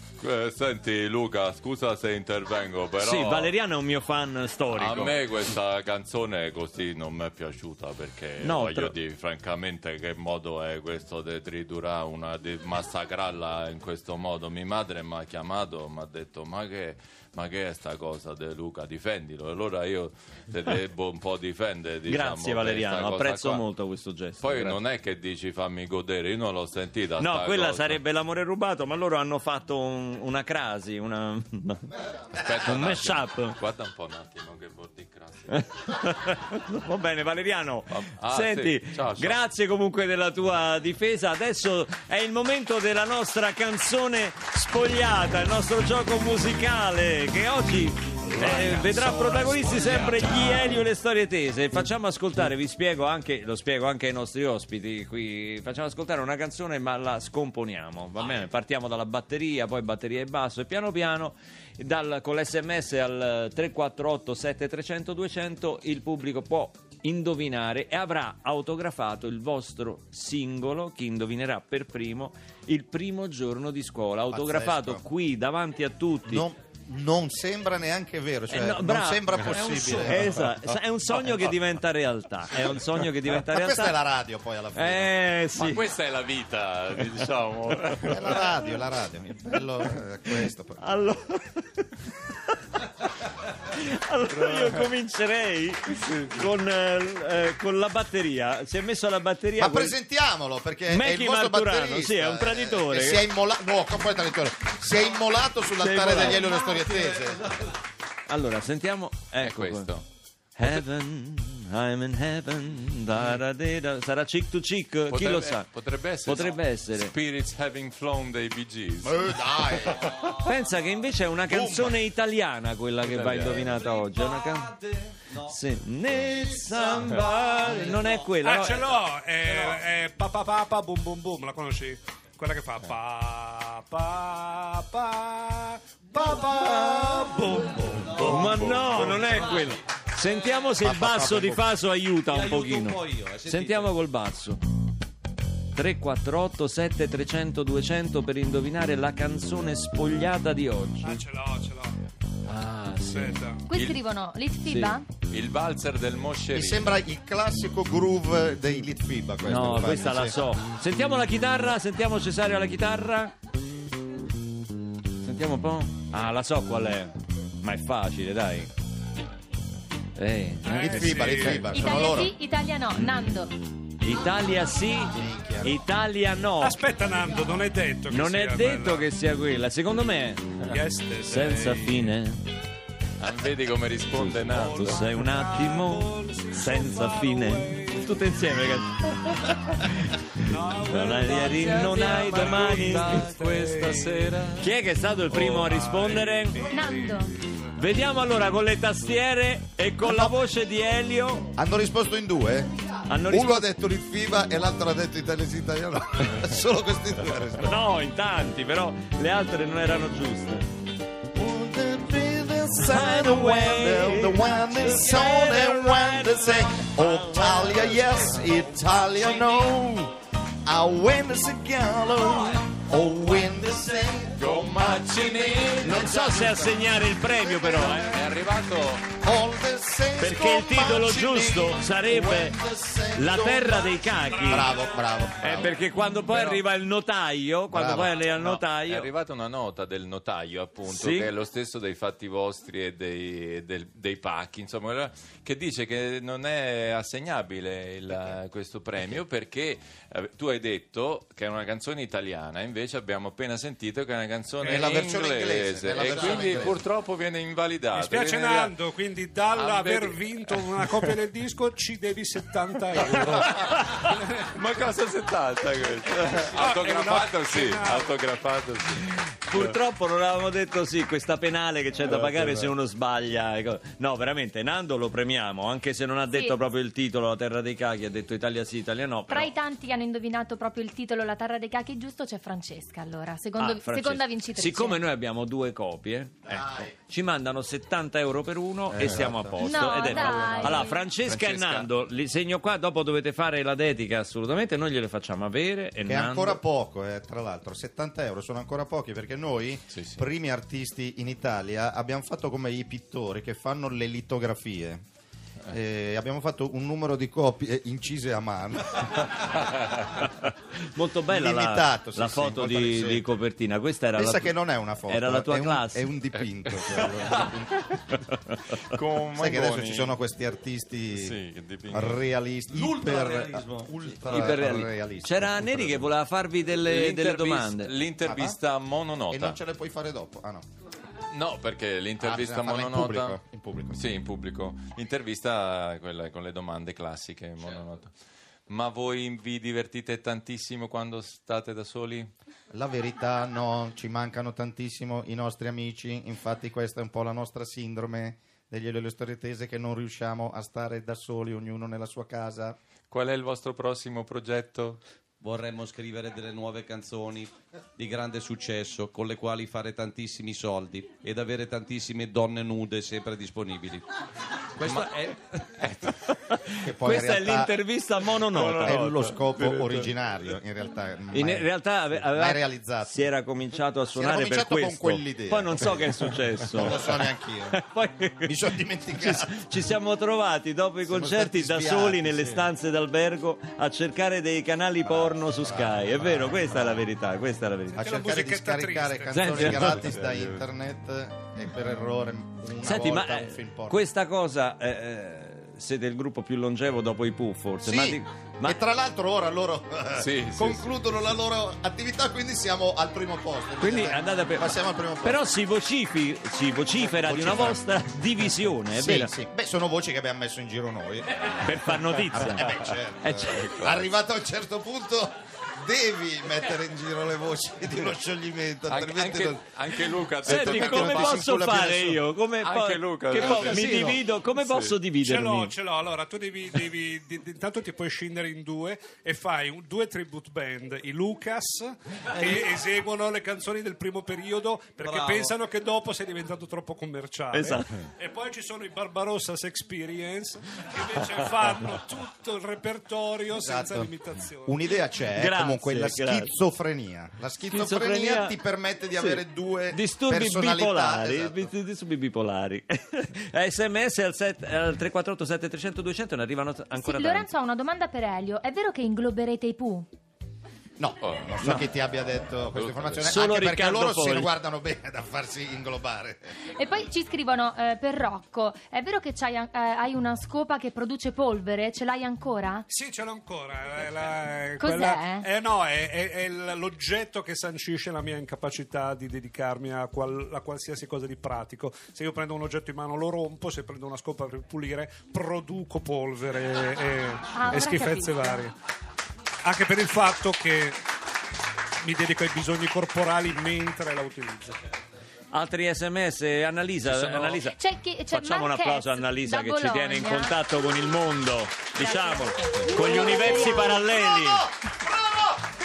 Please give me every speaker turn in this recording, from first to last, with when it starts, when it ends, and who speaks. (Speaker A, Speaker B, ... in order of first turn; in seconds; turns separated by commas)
Speaker A: 0.2-3.5, Speaker B: 3.0-5.2, Speaker A: 4.7-23.7, Speaker B: 8.4-9.0, Speaker B: 22.1-24.8, Speaker A: 24.4-28.0, Speaker B: 27.2-31.9, Speaker A: 32.3-35.6, Speaker B: 32.6-33.6, Speaker B: 35.5-76.5, Speaker A: 37.9-39.4, Speaker C: 48.4-50.4, Speaker D: 74.3-75.0, Speaker D: 76.3-80.3, Speaker B: 78.5-84.0, Speaker E: 79.5-80.5, Speaker D: 83.4-85.2, Speaker B: 84.8-85.8, Speaker A: 85.5-88.5, Speaker D: 88.1-91.0, Speaker B: 90.8-92.1, Speaker B: 93.8-100.0, Speaker A: 94.3-94.9, Speaker A: 96.0-96.5, Speaker D: 99.6-107.5, Speaker B: 100.9-103.3, Speaker B: 105.8-106.5, Speaker E: 106.2-107.6, Speaker B: 108.3-109.9, Speaker A: 109.4-110.0, Speaker B: 110.6-115.7, Speaker A: 115.1-120.3, Speaker B: 116.2-117.1, Speaker D: 119.0-120.2, Speaker E: 120.0-120.6, Speaker B: 120.5-124.7, Speaker D: 121.5-122.0, Speaker A: 123.0-123.8, Speaker E: 123.5-125.6, Speaker B: 125.5-128.8, Speaker E: 126.2-128.3, Speaker C: 128.4-137.0, Speaker E: 136.1-139.8, Speaker A: 138.0-139.4, Speaker B: 138.2-144.6, Speaker D: 140.8-141.7, Speaker E: 142.3-143.9, Speaker B: 145.7-151.2, Speaker C: 151.0-152.0, Speaker A: 152.5-154.0, Speaker C: 153.1-153.7, Speaker F: 153.7-155.1, Speaker B: 154.7-154.9, Speaker A: 155.3-157.0, Speaker D: 156.5-160.4, Speaker B: 159.4-163.3, Speaker B: 165.2-168.7, Speaker B: 170.2-170.9, Speaker C: 170.6-171.7, Speaker D: 170.7-172.3, Speaker F: 171.7-173.6, Speaker B: 174.0-176.8, Speaker D: 175.1-175.7, Speaker C: 176.6-179.1, Speaker B: 178.1-180.6, Speaker C: 180.7-182.1, Speaker B: 181.2-182.5, Speaker A: 183.2-185.1, Speaker B: 184.2-193.3, Speaker C: 184.5-188.2, Speaker C: 190.4-194.4, Speaker A: 191.6-194.7, Speaker B: 194.6-196.8, Speaker A: 195.3-195.7, Speaker C: 195.6-197.7, Speaker F: 196.7-197.3, Speaker B: 197.8-201.5, Speaker D: 200.0-200.4, Speaker D: 201.6-207.8, Speaker B: 203.1-203.7, Speaker B: 207.6-210.7, Speaker D: 211.3-226.8, Speaker B: 212.9-218.0, Speaker E: 218.8-219.7, Speaker A: 224.4-226.3, Speaker B: 225.8-228.2, Speaker D: 227.3-228.3, Speaker A: 227.9-229.1, Speaker D: 229.2-235.7, Speaker B: 230.2-232.6, Speaker B: 233.2-234.7, Speaker C: 234.3-234.8, Speaker B: 235.4-239.1, Speaker A: 236.3-236.6, Speaker D: 237.7-238.2, Speaker A: 238.2-258.8, Speaker B: 240.9-241.3, Speaker D: 254.6-256.8, Speaker C: 257.9-264.4, Speaker A: 259.5-261.2, Speaker A: 263.2-263.9, Speaker A: 264.4-269.8, Speaker C: 266.5-268.2, Speaker B: 269.5-279.5, Speaker A: 272.1-272.7, Speaker F: 276.3-276.6, Speaker F: 279.3-285.0, Speaker B: 283.6-296.6, Speaker D: 286.5-286.9, Speaker D: 288.9-290.6, Speaker F: 289.6-291.0, Speaker A: 290.7-291.9, Speaker D: 296.1-305.0, Speaker A: 299.9-300.2, Speaker D: 305.7-309.3, Speaker B: 310.9-316.1, Speaker D: 311.3-313.3, Speaker D: 314.1-317.9, Speaker A: 316.3-317.5, Speaker A: 318.8-320.2, Speaker D: 319.4-321.4, Speaker A: 321.1-322.2, Speaker D: 321.9-326.1, Speaker E: 322.7-324.4, Speaker B: 324.3-328.0, Speaker A: 324.4-324.6, Speaker A: 326.9-329.6, Speaker D: 328.2-328.6, Speaker D: 329.3-330.6, Speaker A: 331.3-333.4, Speaker D: 332.2-334.1, Speaker A: 333.9-338.1, Speaker E: 337.6-337.9, Speaker A: 338.7-342.3, Speaker D: 342.7-352.8, Speaker A: 353.1-355.0, Speaker E: 355.4-364.0, Speaker E: 364.8-365.6, Speaker A: 364.8-365.1, Speaker A: 365.8-366.4, Speaker B: 366.5-369.2, Speaker D: 366.8-367.8, Speaker A: 368.5-370.1, Speaker D: 368.7-373.3, Speaker B: 371.3-377.1, Speaker D: 374.1-376.1, Speaker D: 376.7-377.8, Speaker B: 377.7-378.6, Speaker D: 378.4-379.5, Speaker B: 379.2-388.1, Speaker D: 381.0-382.6, Speaker D: 385.0-386.6, Speaker C: 387.9-389.9, Speaker D: 388.0-394.0, Speaker B: 389.3-390.1, Speaker A: 389.9-390.6, Speaker B: 392.8-398.8, Speaker D: 397.8-405.4, Speaker A: 400.1-400.9, Speaker B: 403.8-409.3, Speaker D: 407.0-407.9, Speaker D: 408.9-411.3, Speaker B: 411.6-413.8, Speaker D: 412.3-419.9, Speaker A: 418.9-421.8, Speaker D: 420.4-422.2, Speaker B: 420.4-425.7, Speaker A: 422.6-423.9, Speaker C: 423.4-424.2, Speaker A: 424.6-425.0, Speaker C: 425.2-444.8, Speaker E: 432.3-432.7, Speaker E: 435.0-435.6, Speaker B: 437.5-438.0, Speaker D: 443.6-444.1, Speaker D: 444.7-451.7, Speaker B: 445.4-446.5, Speaker B: 447.7-448.6, Speaker B: 449.2-457.5, Speaker F: 456.9-460.1, Speaker D: 461.0-466.6, Speaker A: 461.2-461.7, Speaker A: 462.7-463.4, Speaker B: 463.2-464.5, Speaker F: 466.8-472.9, Speaker C: 472.9-488.7, Speaker F: 474.8-475.5, Speaker F: 487.6-488.6, Speaker C: 489.6-491.0, Speaker C: 492.0-494.8, Speaker B: 495.5-497.8, Speaker A: 497.1-497.6, Speaker F: 497.7-500.6, Speaker B: 498.3-504.7, Speaker F: 501.9-504.0, Speaker D: 503.5-505.5